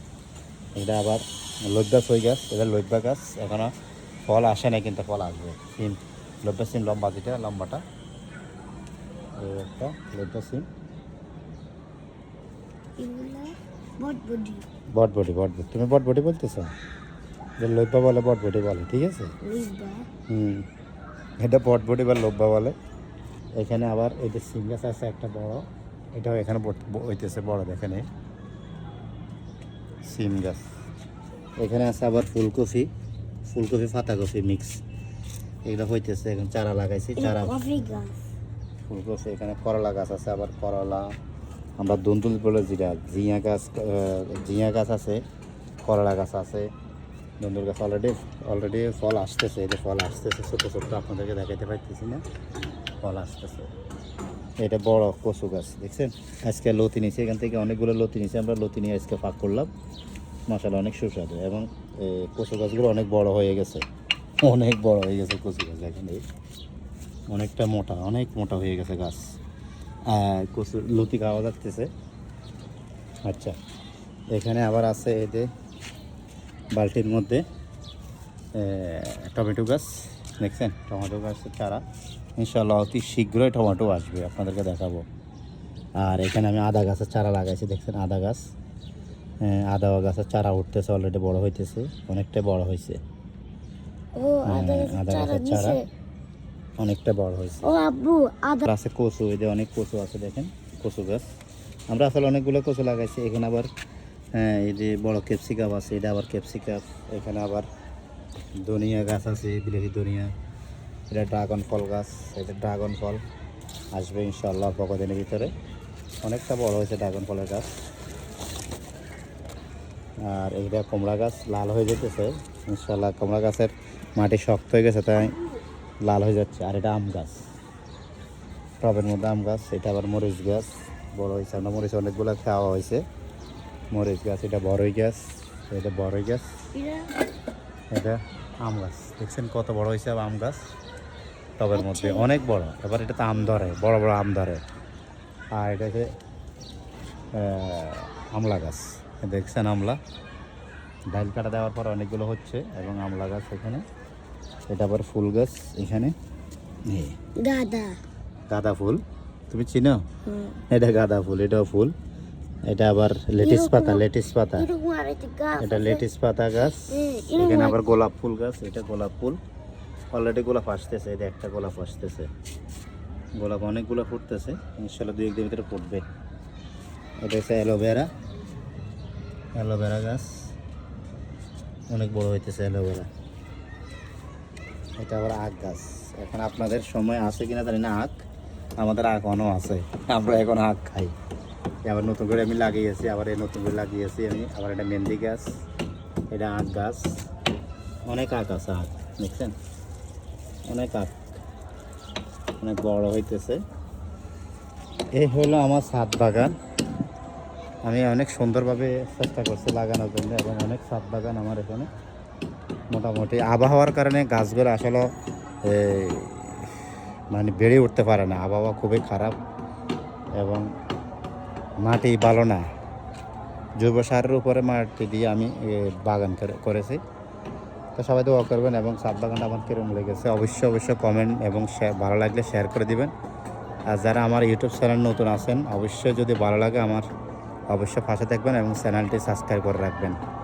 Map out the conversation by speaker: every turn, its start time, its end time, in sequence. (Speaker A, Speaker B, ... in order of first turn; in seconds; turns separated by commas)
Speaker A: 0.8-3.7, Speaker A: 4.2-7.8, Speaker A: 9.4-10.7, Speaker B: 13.0-14.6, Speaker A: 14.9-16.7, Speaker A: 17.6-19.4, Speaker B: 19.4-20.1, Speaker A: 20.3-20.6, Speaker A: 21.4-22.8, Speaker A: 23.6-28.1, Speaker A: 30.0-30.6, Speaker A: 31.6-32.9, Speaker A: 33.4-34.8, Speaker A: 35.6-37.6, Speaker B: 37.2-38.2, Speaker A: 38.8-41.1, Speaker A: 41.8-45.2, Speaker A: 45.8-46.7, Speaker A: 47.4-52.2, Speaker A: 53.0-53.7, Speaker A: 54.6-59.7, Speaker A: 60.5-63.9, Speaker A: 64.4-66.2, Speaker A: 67.3-69.3, Speaker A: 70.1-71.9, Speaker A: 73.2-73.6, Speaker A: 74.3-75.5, Speaker A: 76.7-77.4, Speaker A: 78.5-81.8, Speaker A: 82.4-85.1, Speaker A: 86.0-88.5, Speaker A: 89.4-93.0, Speaker B: 94.1-95.8, Speaker A: 94.4-95.8, Speaker A: 96.8-97.7, Speaker B: 97.6-98.6, Speaker A: 98.6-101.2, Speaker A: 101.9-103.7, Speaker A: 104.3-107.7, Speaker A: 108.6-110.3, Speaker A: 111.1-113.2, Speaker A: 113.9-115.5, Speaker A: 116.2-117.7, Speaker A: 120.2-125.4, Speaker A: 126.0-127.4, Speaker A: 128.8-133.0, Speaker A: 133.9-136.5, Speaker B: 136.7-137.1, Speaker A: 137.9-140.6, Speaker A: 141.6-144.6, Speaker B: 141.7-142.3, Speaker A: 145.5-146.1, Speaker A: 147.3-150.0, Speaker A: 151.1-153.8, Speaker A: 154.7-156.1, Speaker A: 156.9-157.2, Speaker B: 157.4-158.0, Speaker A: 158.5-160.0, Speaker B: 160.2-160.6, Speaker A: 160.7-161.9, Speaker A: 162.7-164.7, Speaker B: 163.4-164.1, Speaker B: 164.6-166.0, Speaker A: 165.6-169.4, Speaker B: 166.8-167.8, Speaker A: 170.1-172.3, Speaker A: 173.4-176.0, Speaker A: 177.2-178.1, Speaker A: 179.6-180.5, Speaker A: 181.9-183.1, Speaker A: 185.0-188.2, Speaker A: 188.8-191.1, Speaker A: 191.8-195.5, Speaker A: 196.3-197.2, Speaker A: 198.1-199.5, Speaker A: 200.7-201.1, Speaker A: 202.6-203.6, Speaker A: 205.1-206.6, Speaker A: 207.8-211.9, Speaker A: 212.9-215.1, Speaker A: 215.6-219.4, Speaker A: 220.3-220.7, Speaker A: 221.8-222.7, Speaker A: 223.8-227.0, Speaker A: 227.9-233.1, Speaker A: 233.9-237.0, Speaker A: 237.7-240.2